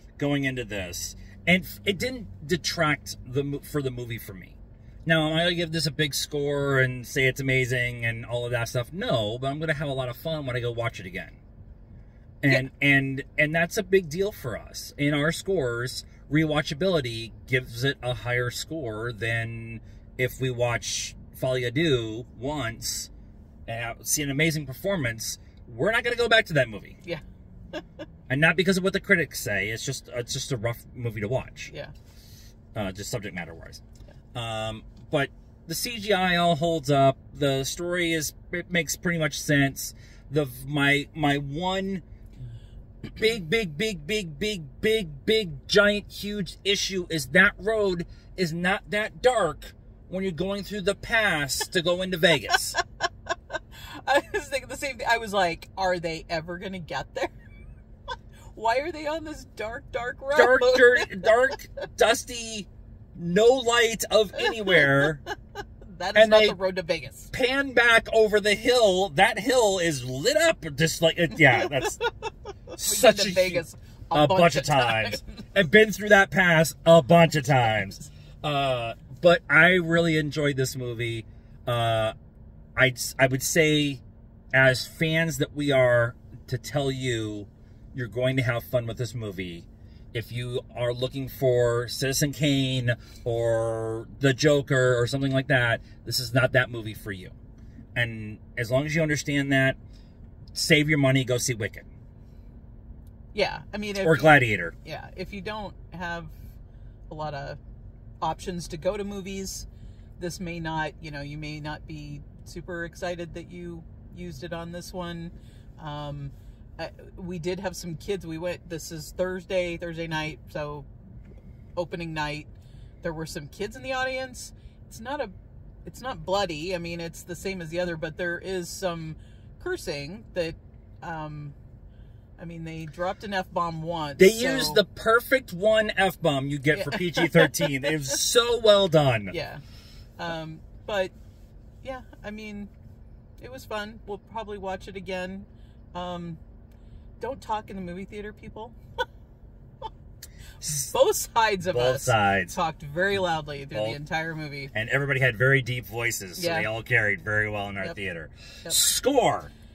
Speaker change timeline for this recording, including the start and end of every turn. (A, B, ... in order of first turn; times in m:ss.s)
0:00.2-0:11.4 A
0:12.4-0:23.1 A
0:23.7-0:27.0 A
0:28.3-0:31.7 A
0:32.7-0:33.8 A
0:34.3-0:42.0 A
0:43.1-0:52.8 A
0:53.9-0:57.3 B
0:58.5-1:01.3 B
1:00.3-1:05.2 A
1:04.4-1:05.1 B
1:05.8-1:07.3 B
1:06.1-1:06.6 A
1:07.3-1:12.0 A
1:12.8-1:22.1 A
1:12.8-1:15.2 B
1:22.8-1:24.0 A
1:24.5-1:37.4 A
1:38.0-1:39.8 A
1:40.5-1:41.9 A
1:43.3-1:46.4 B
1:44.0-1:44.7 A
1:47.1-1:47.6 B
1:48.2-1:49.7 B
1:50.2-2:00.9 B
2:01.8-2:02.5 B
2:03.0-2:05.3 B
2:05.8-2:11.5 B
2:12.4-2:14.8 B
2:14.2-2:19.3 A
2:16.7-2:18.1 B
2:19.3-2:19.6 B
2:20.2-2:21.1 B
2:21.8-2:22.7 B
2:23.4-2:26.4 B
2:27.2-2:28.8 B
2:30.6-2:30.9 A
2:30.9-2:34.7 B
2:31.7-2:32.6 A
2:33.7-2:34.0 A
2:34.7-2:39.5 A
2:36.4-2:36.7 B